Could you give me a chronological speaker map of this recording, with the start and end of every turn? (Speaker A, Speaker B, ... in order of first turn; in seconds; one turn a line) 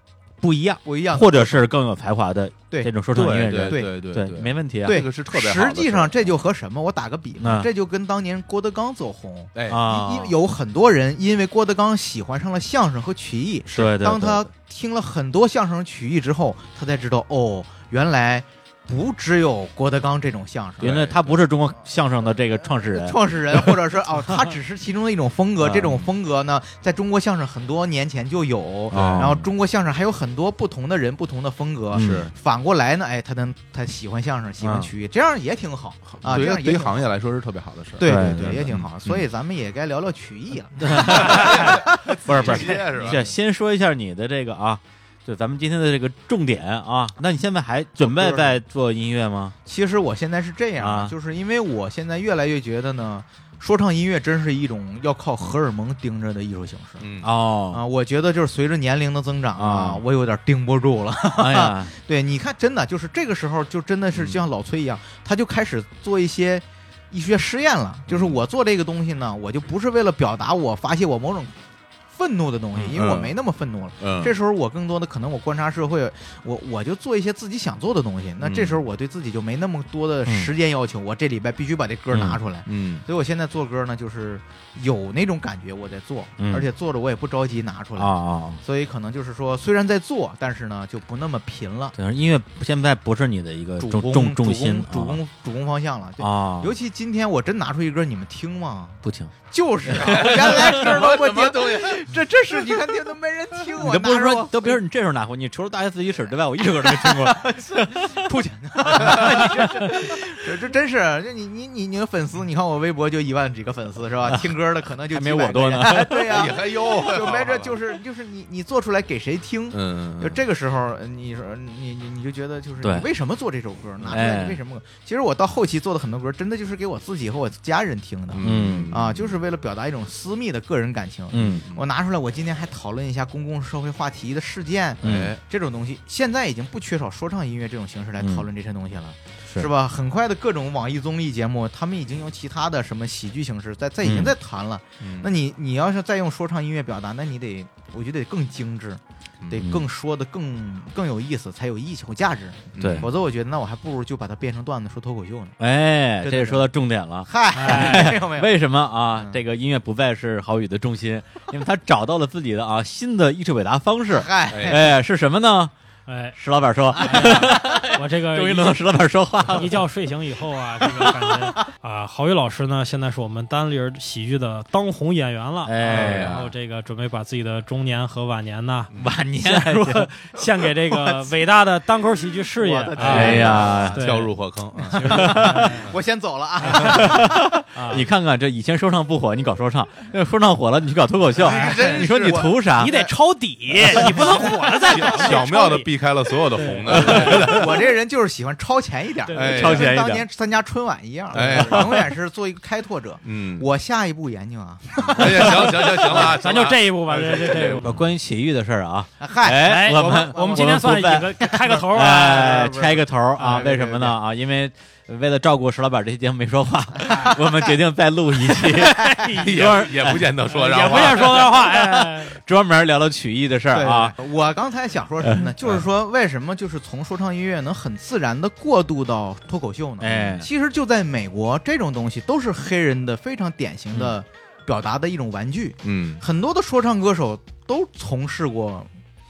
Speaker A: 0.4-5.0
Speaker B: 0.8-1.7
Speaker C: 3.1-6.3
Speaker B: 3.5-3.9
Speaker B: 4.8-21.1
Speaker A: 7.4-7.7
Speaker C: 9.6-9.8
Speaker A: 9.7-10.3
Speaker A: 13.7-14.5
Speaker A: 20.8-23.7
Speaker C: 20.8-21.4
Speaker B: 22.6-37.1
Speaker A: 25.6-26.1
Speaker C: 28.9-29.4
Speaker A: 28.9-29.5
Speaker A: 31.9-32.3
Speaker C: 31.9-32.3
Speaker A: 34.6-34.9
Speaker C: 36.1-39.2
Speaker B: 38.0-43.3
Speaker A: 38.0-38.7
Speaker A: 40.8-49.6
Speaker C: 41.1-43.2
Speaker B: 48.0-48.6
Speaker B: 49.6-57.1
Speaker A: 50.8-51.1
Speaker C: 57.0-57.3
Speaker A: 57.2-57.8
Speaker B: 57.7-71.5
Speaker A: 59.6-60.0
Speaker A: 61.4-61.9
Speaker C: 64.2-64.4
Speaker C: 68.1-68.4
Speaker B: 72.1-92.0
Speaker C: 72.9-73.3
Speaker C: 74.0-74.3
Speaker C: 78.4-78.8
Speaker A: 80.3-80.5
Speaker A: 82.1-82.4
Speaker C: 82.7-83.0
Speaker A: 86.4-86.7
Speaker A: 88.0-88.6
Speaker A: 92.0-95.2
Speaker B: 93.8-104.8
Speaker A: 96.2-96.7
Speaker A: 99.0-99.3
Speaker A: 99.9-100.6
Speaker C: 99.9-102.1
Speaker A: 103.8-108.2
Speaker B: 106.6-155.6
Speaker A: 108.9-109.6
Speaker C: 109.0-109.3
Speaker A: 114.3-114.5
Speaker A: 115.1-116.4
Speaker C: 116.3-117.8
Speaker C: 119.7-120.4
Speaker A: 122.8-123.1
Speaker A: 124.1-124.6
Speaker C: 128.3-129.4
Speaker A: 128.4-128.9
Speaker A: 131.3-131.6
Speaker C: 131.5-131.8
Speaker A: 135.0-135.3
Speaker C: 135.0-135.4
Speaker A: 138.2-138.4
Speaker A: 144.0-144.3
Speaker C: 145.0-145.3
Speaker C: 149.4-149.7
Speaker A: 149.6-149.8
Speaker C: 152.8-153.1
Speaker A: 152.8-153.1
Speaker A: 155.6-165.7
Speaker B: 156.2-156.7
Speaker B: 157.2-158.6
Speaker D: 157.5-158.2
Speaker B: 159.1-159.4
Speaker B: 164.1-164.9
Speaker C: 164.5-164.8
Speaker D: 166.1-166.4
Speaker A: 166.4-169.8
Speaker D: 166.9-168.8
Speaker D: 169.5-184.3
Speaker A: 171.0-171.3
Speaker A: 175.7-176.4
Speaker C: 175.9-176.5
Speaker C: 178.9-179.2
Speaker A: 179.0-180.1
Speaker B: 182.6-187.6
Speaker A: 183.1-184.0
Speaker C: 183.1-185.3
Speaker D: 184.9-185.8
Speaker A: 185.0-185.8
Speaker D: 186.6-187.0
Speaker A: 186.7-192.9
Speaker D: 187.8-188.1
Speaker B: 191.4-193.1
Speaker C: 191.4-192.4
Speaker D: 192.8-197.6
Speaker B: 193.8-195.2
Speaker C: 194.9-197.8
Speaker B: 196.9-206.3
Speaker C: 199.3-199.9
Speaker A: 199.4-200.2
Speaker C: 201.3-202.1
Speaker C: 203.2-203.7
Speaker C: 205.1-208.1
Speaker D: 205.5-207.9
Speaker A: 207.8-220.3
Speaker B: 209.2-210.8
Speaker D: 209.6-212.9
Speaker B: 211.4-211.8
Speaker B: 212.3-214.2
Speaker D: 213.4-213.8
Speaker B: 216.9-217.8
Speaker B: 218.5-219.4
Speaker D: 219.1-219.9
Speaker C: 219.4-221.5
Speaker D: 220.5-222.4
Speaker A: 220.8-224.1
Speaker B: 223.7-238.9
Speaker A: 225.2-225.6
Speaker A: 230.0-230.5
Speaker C: 235.8-236.2